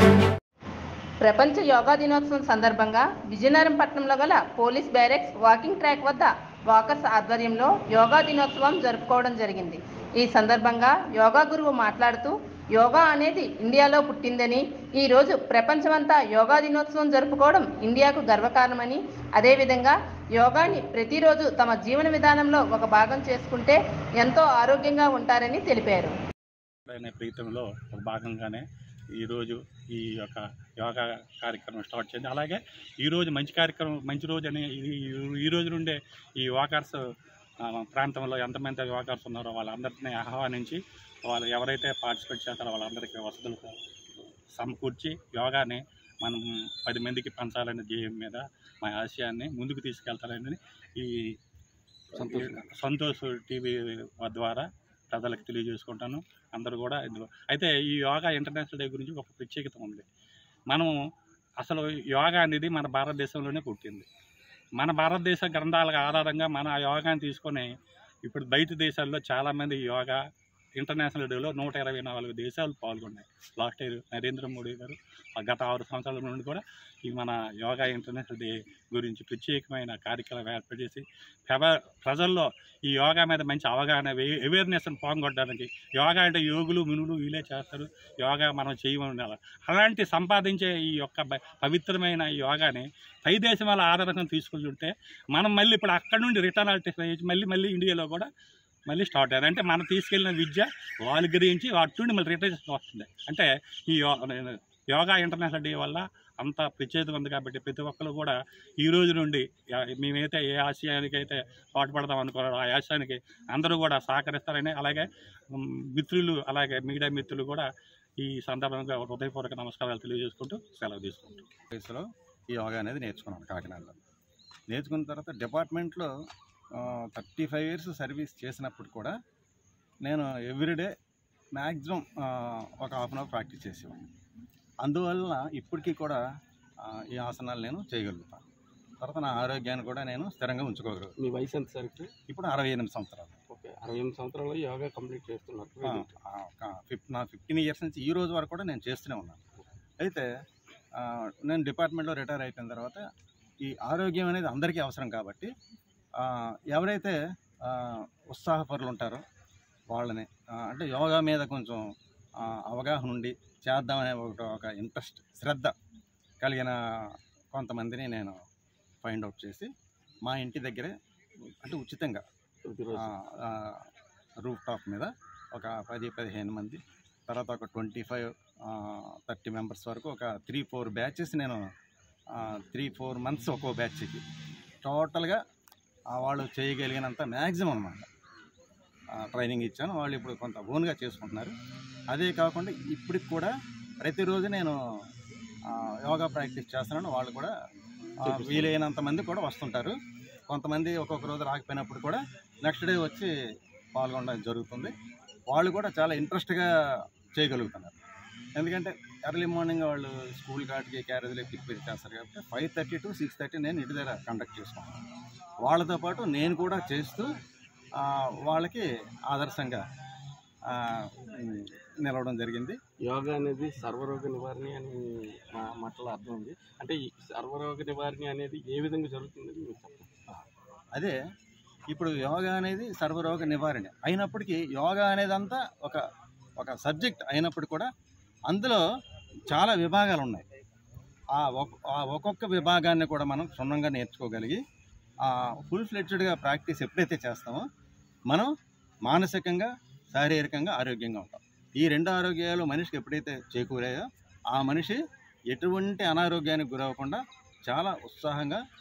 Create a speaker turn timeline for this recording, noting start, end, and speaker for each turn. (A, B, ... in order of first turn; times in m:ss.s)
0:01.2-0:26.1 A
0:26.9-0:28.6 B
0:29.2-0:37.0 B
0:37.6-0:43.8 B
0:44.6-0:51.4 B
0:52.1-0:52.7 C
0:52.1-1:00.0 B
1:01.6-1:04.1 B
1:04.8-1:07.7 B
1:08.2-1:10.2 B
1:10.8-1:38.3 B
1:38.9-1:57.7 B
1:58.2-2:01.5 B
2:01.7-2:04.0 D
2:04.7-2:06.1 D
2:06.8-2:09.2 D
2:10.1-2:10.9 D
2:11.6-2:14.1 D
2:14.8-2:16.2 D
2:16.8-2:18.4 D
2:19.0-2:21.1 D
2:21.2-2:22.1 C
2:22.3-2:23.3 D
2:23.5-2:26.1 C
2:25.8-2:29.4 D
2:30.0-2:30.3 D
2:31.0-2:33.0 D
2:33.6-2:35.5 D
2:36.2-2:39.2 D
2:39.9-2:41.8 D
2:42.4-2:45.7 D
2:46.4-2:46.8 D
2:47.5-2:48.4 D
2:49.0-2:49.7 D
2:50.3-2:51.0 D
2:51.6-2:52.2 D
2:52.6-2:53.1 C
2:52.9-2:53.8 D
2:54.4-3:01.6 D
3:02.4-3:04.2 D
3:04.8-3:05.4 D
3:06.1-3:08.1 D
3:09.2-3:11.5 D
3:12.1-3:13.5 D
3:14.0-3:14.8 D
3:15.7-3:17.5 D
3:18.3-3:20.0 D
3:18.3-3:18.7 C
3:20.5-3:23.3 D
3:24.0-3:25.0 D
3:25.5-3:26.7 D
3:27.4-3:28.0 D
3:28.6-3:35.0 D
3:35.6-3:37.3 D
3:38.0-3:39.8 D
3:40.7-3:42.8 D
3:43.0-3:50.1 C
3:51.9-3:56.0 D
3:56.6-3:57.9 D
3:58.5-3:58.8 D
3:59.5-4:00.4 D
4:01.4-4:04.6 D
4:05.3-4:07.6 D
4:09.1-4:15.0 D
4:15.5-4:18.6 D